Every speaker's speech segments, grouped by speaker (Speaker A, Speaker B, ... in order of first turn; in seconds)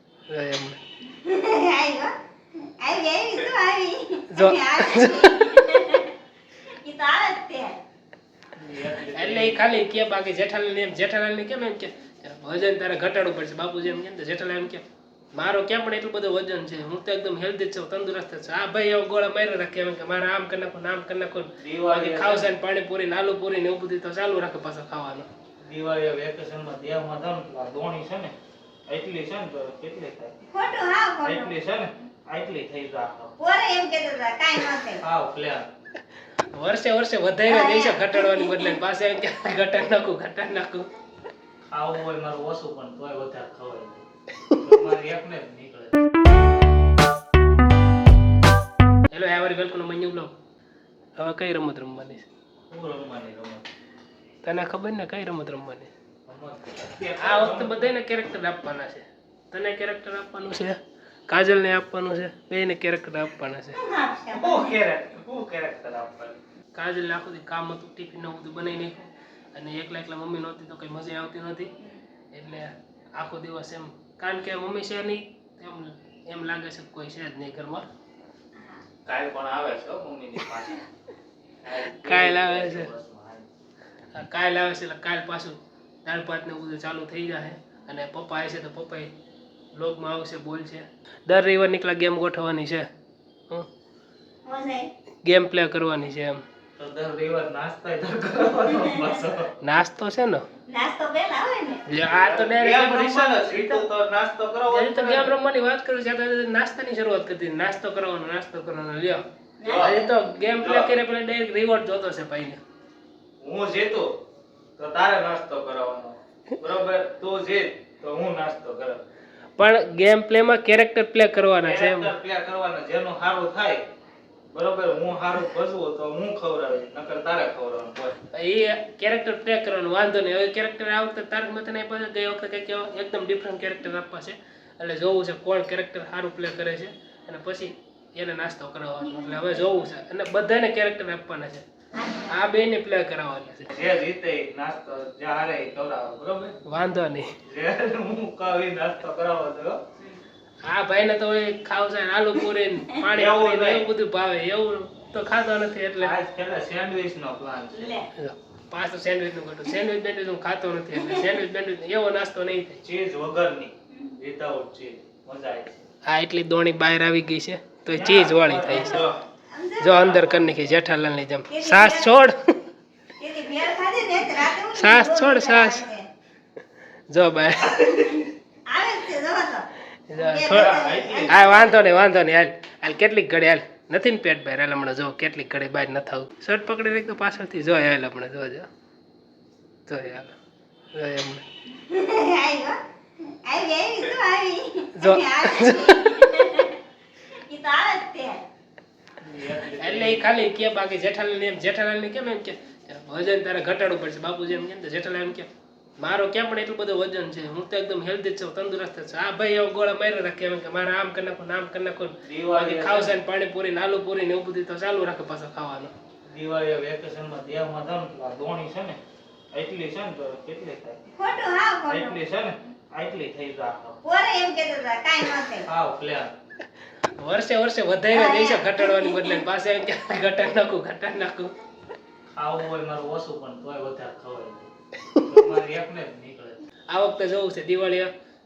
Speaker A: 0.3-0.8, 4.3-5.6, 9.1-25.3, 36.5-40.9, 49.1-50.4, 51.2-52.3, 54.4-55.9, 57.2-60.8, 61.3-63.8, 66.8-71.7, 72.3-77.9, 81.9-82.9, 84.1-89.1, 89.7-92.9, 95.2-96.4, 99.6-100.5, 101.9-103.9, 104.7-109.2, 109.8-112.6, 119.6-122.1, 128.3-141.6, 142.3-143.8, 146.7-147.3, 150.7-156.2, 158.1-162.8, 166.1-169.1, 169.8-172.6, 174.7-175.8, 177.1-178.3, 180.1-180.8, 181.3-188.7, 189.9-190.3, 190.9-191.4, 195.0-196.2, 199.8-215.9, 227.2-231.5, 236.9-238.1
Speaker B: 1.2-2.1, 2.8-6.1, 6.7-7.8, 30.5-31.5, 33.4-35.0, 37.5-38.8, 63.7-64.8, 78.5-78.8, 94.5-94.9, 100.7-101.8, 109.6-109.9, 139.0-139.6, 142.0-142.3, 157.7-158.1, 161.0-161.2, 168.6-170.1, 171.5-172.2, 173.2-176.1, 178.7-181.8, 191.8-196.8, 197.5-198.4, 221.2-222.2, 224.0-225.7, 228.1-229.4
Speaker C: 8.6-9.7, 21.6-22.5, 25.6-28.4, 28.9-30.4, 31.2-33.3, 35.0-35.7, 41.7-44.0, 44.6-46.0, 52.7-53.7, 56.3-57.9, 64.3-66.4, 79.1-80.8, 81.6-83.5, 96.8-99.5, 102.0-105.3, 109.6-110.1, 110.6-111.0, 113.4-114.1, 114.8-119.0, 121.6-123.8, 124.5-128.2, 143.7-146.6, 147.5-149.8, 153.1-153.9, 156.0-158.0, 162.8-165.9, 167.9-169.2, 169.9-170.6, 180.4-181.8, 199.2-200.3, 212.2-213.2, 216.3-219.0, 219.5-221.0, 221.9-224.0, 225.7-226.3, 232.3-234.7, 235.2-236.6